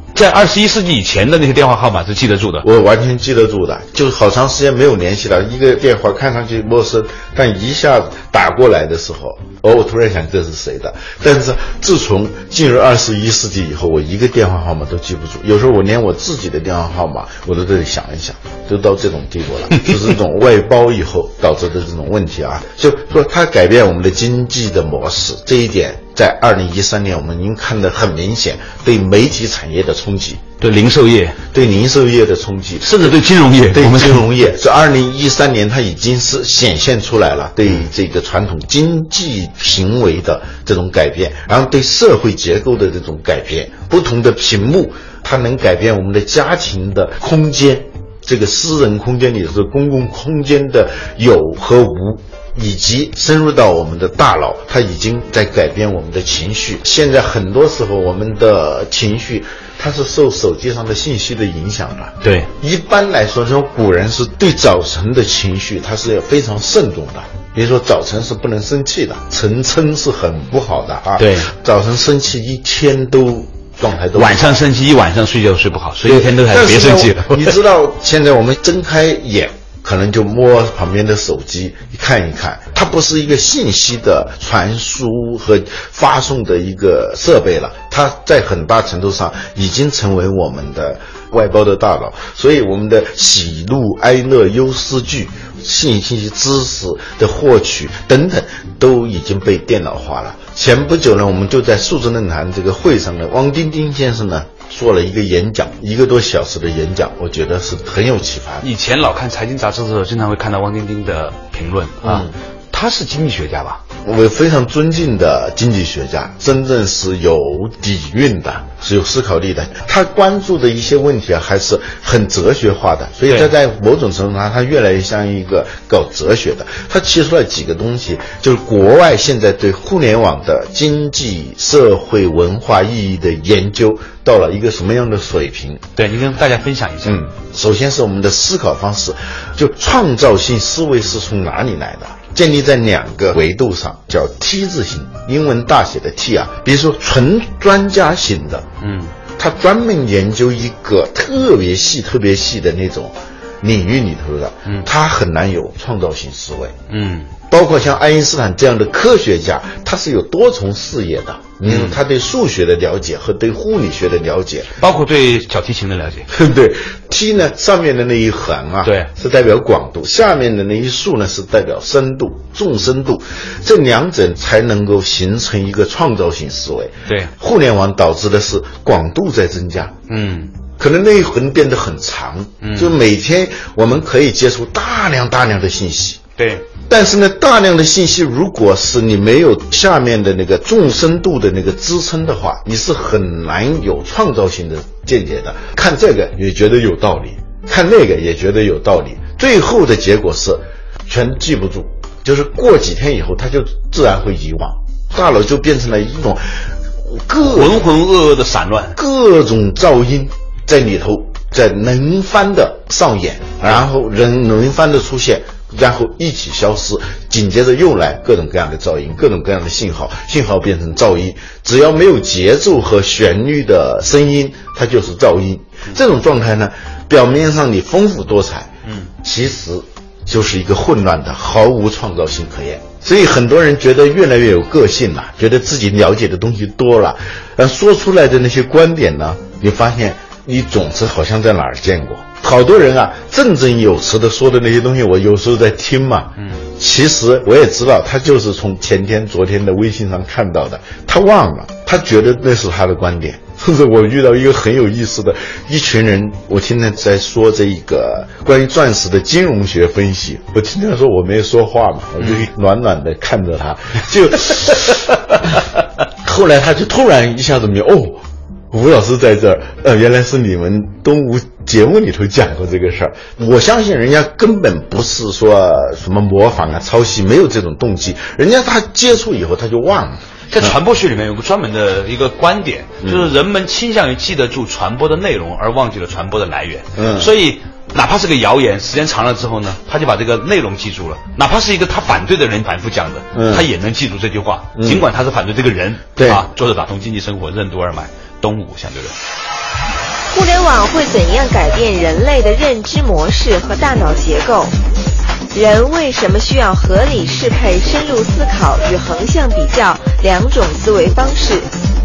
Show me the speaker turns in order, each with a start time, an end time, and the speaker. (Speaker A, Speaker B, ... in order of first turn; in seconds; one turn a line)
Speaker A: 0.1-2.7
Speaker B: 2.6-30.4
Speaker A: 30.6-31.4
Speaker B: 31.5-74.7
Speaker A: 32.8-34.3
Speaker A: 62.2-62.5
Speaker A: 71.2-71.5
Speaker A: 74.1-77.6
Speaker B: 76.0-108.7
Speaker A: 108.6-113.8
Speaker B: 112.0-112.3
Speaker B: 114.0-135.8
Speaker A: 136.0-137.2
Speaker B: 137.1-148.7
Speaker A: 148.8-149.1
Speaker B: 149.4-156.7
Speaker A: 156.9-157.3
Speaker B: 157.5-164.7
Speaker A: 161.6-162.0
Speaker A: 164.8-166.3
Speaker B: 166.3-179.9
Speaker A: 168.8-169.1
Speaker A: 177.1-177.3
Speaker A: 180.1-180.5
Speaker B: 180.8-186.2
Speaker A: 182.6-183.0
Speaker A: 186.4-186.7
Speaker B: 186.8-207.8
Speaker A: 207.4-209.0
Speaker B: 208.9-228.7
Speaker B: 229.2-265.5
Speaker B: 266.2-280.8
Speaker A: 280.5-299.2
Speaker B: 283.0-283.3
Speaker B: 287.0-287.3
Speaker B: 293.3-293.7
Speaker B: 294.8-295.1
Speaker B: 296.2-296.4
Speaker C: 300.3-304.7
Speaker C: 305.5-311.7